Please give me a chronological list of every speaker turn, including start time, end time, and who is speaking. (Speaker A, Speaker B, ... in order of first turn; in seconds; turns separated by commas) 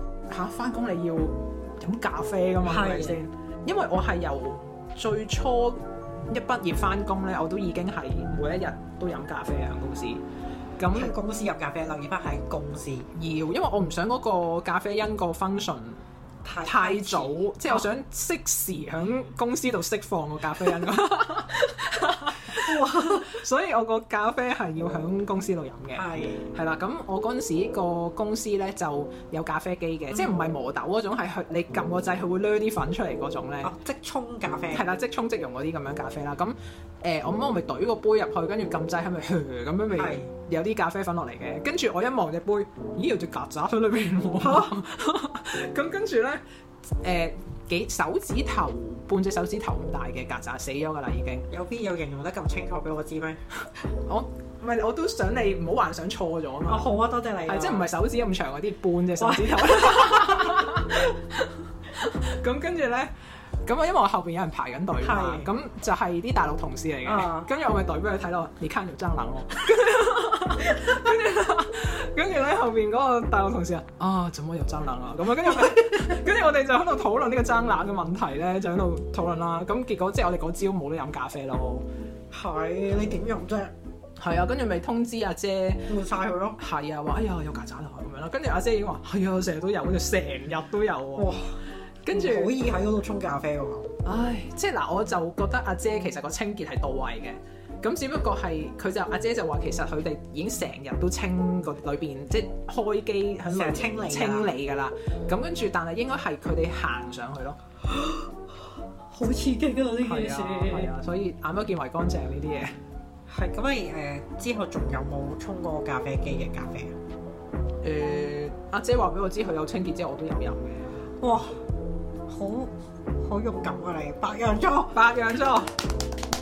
Speaker A: 0.3-10.2, Speaker B: 2.6-3.2, Speaker A: 10.8-11.1, Speaker B: 10.9-13.1, Speaker A: 13.2-16.0, Speaker B: 16.4-17.9, Speaker A: 16.6-33.7, Speaker B: 22.5-23.4, Speaker B: 25.9-26.5, Speaker B: 33.6-34.9, Speaker A: 34.7-46.4, Speaker B: 39.9-40.3, Speaker B: 44.4-44.8, Speaker A: 47.0-51.5, Speaker B: 51.5-53.4, Speaker A: 54.1-56.9, Speaker B: 56.7-57.9, Speaker A: 57.5-63.1, Speaker B: 59.2-60.9, Speaker A: 63.6-81.8, Speaker B: 65.0-65.5, Speaker B: 67.0-67.5, Speaker B: 75.4-76.2, Speaker B: 82.3-83.7, Speaker A: 84.2-86.0, Speaker B: 85.9-86.6, Speaker A: 86.6-91.3, Speaker B: 91.2-91.6, Speaker A: 92.0-92.5, Speaker B: 92.1-93.9, Speaker A: 94.0-107.6, Speaker B: 103.5-104.5, Speaker B: 107.9-108.3, Speaker B: 109.1-110.9, Speaker A: 110.0-112.8, Speaker B: 113.3-117.0, Speaker A: 117.8-121.0, Speaker B: 121.2-121.6, Speaker B: 122.3-125.0, Speaker A: 124.9-125.8